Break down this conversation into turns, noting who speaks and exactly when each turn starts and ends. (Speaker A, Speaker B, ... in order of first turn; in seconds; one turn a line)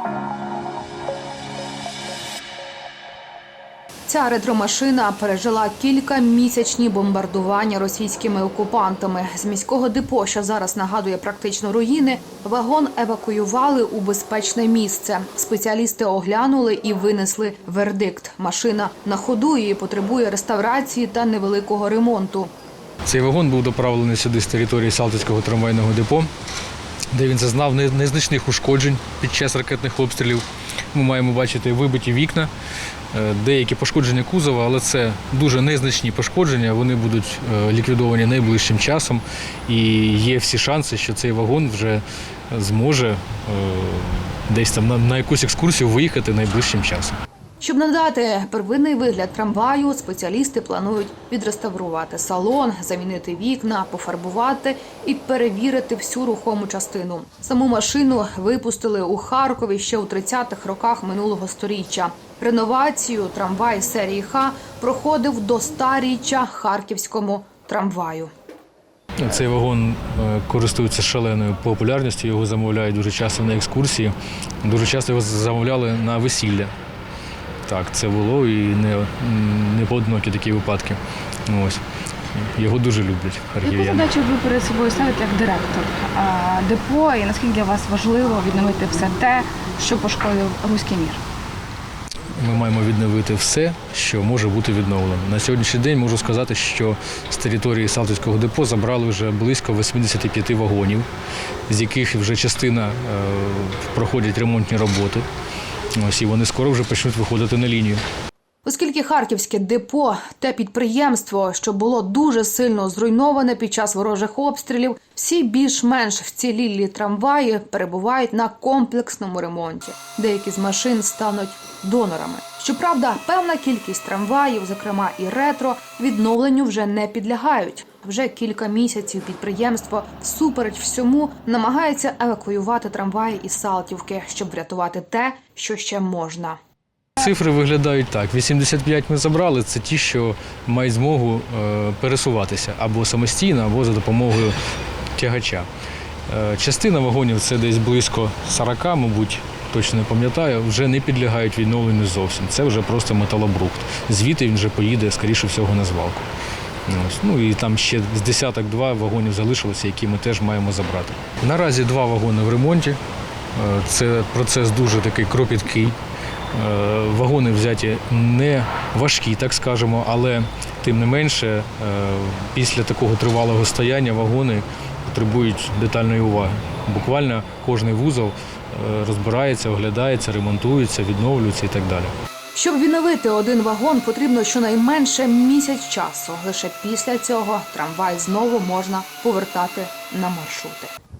Speaker A: 4.1-22.5
Speaker B: 23.1-26.3
Speaker B: 27.1-32.5
Speaker B: 33.1-47.2
Speaker A: 47.6-68.3
Speaker B: 69.2-76.7
Speaker B: 77.7-81.8
Speaker B: 82.3-84.1
Speaker C: 83.6-91.2
Speaker B: 92.3-101.1
Speaker B: 101.7-105.3
Speaker B: 106.0-108.0
Speaker A: 108.7-136.6
Speaker B: 137.2-144.6
Speaker B: 145.2-145.7
Speaker B: 146.3-156.3
Speaker B: 156.9-163.0
Speaker B: 163.5-166.0
Speaker B: 166.5-182.1
Speaker A: 182.6-190.9